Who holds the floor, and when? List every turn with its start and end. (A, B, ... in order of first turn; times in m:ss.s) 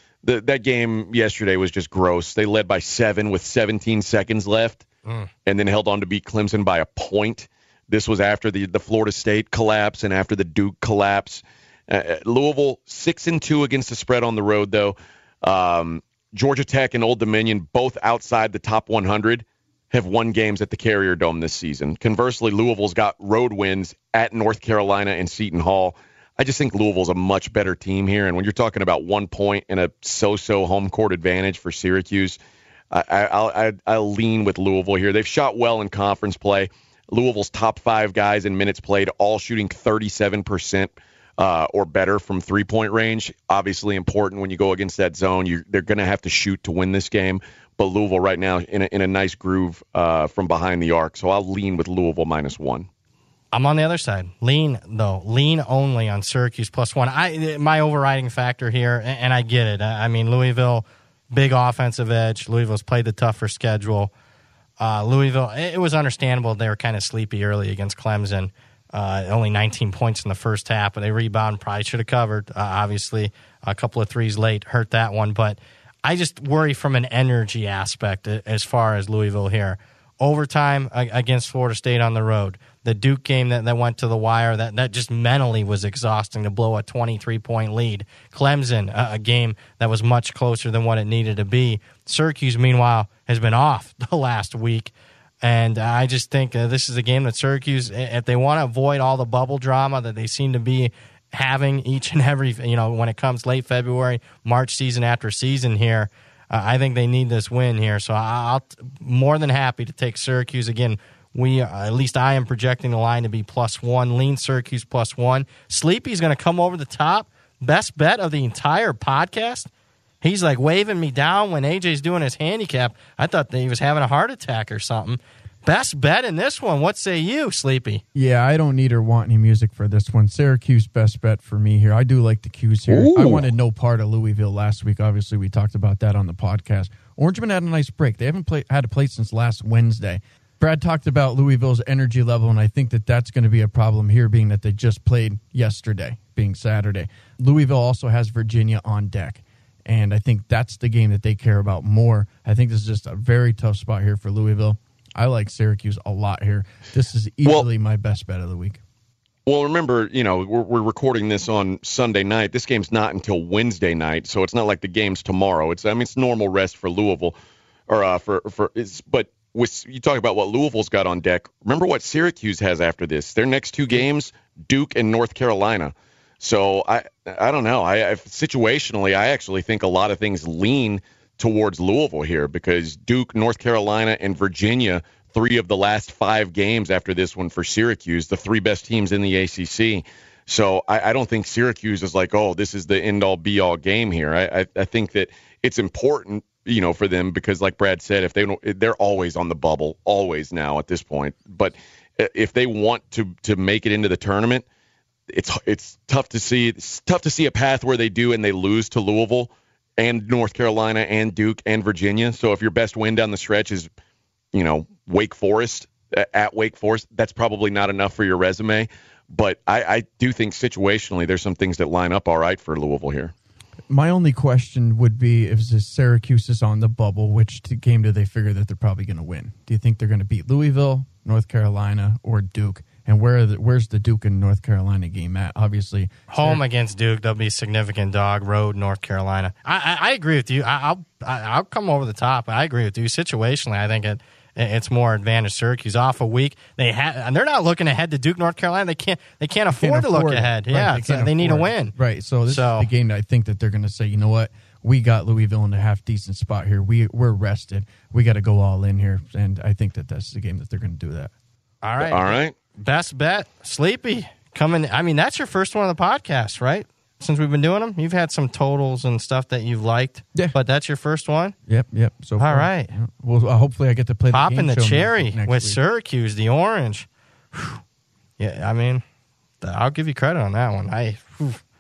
0:00.2-0:04.9 A
0:05.5-0:32.4 A
0:32.9-0:52.9 A
0:53.5-1:04.1 B
1:04.8-1:59.7 B
2:00.2-2:08.0 B
2:08.1-2:38.8 C
2:12.9-2:13.5 A
2:39.5-2:47.4 A
2:47.9-3:24.6 A
3:25.3-3:33.9 A
3:34.5-3:43.3 A
3:43.9-3:56.6 C
3:56.3-4:11.9 B
4:09.7-4:21.3 C
4:12.5-4:12.9 B
4:21.8-4:31.6 B
4:22.0-4:22.5 A
4:31.7-4:35.8 C
4:32.4-4:32.9 B
4:34.3-4:37.8 B
4:38.4-4:39.0 B
4:39.6-4:41.6 B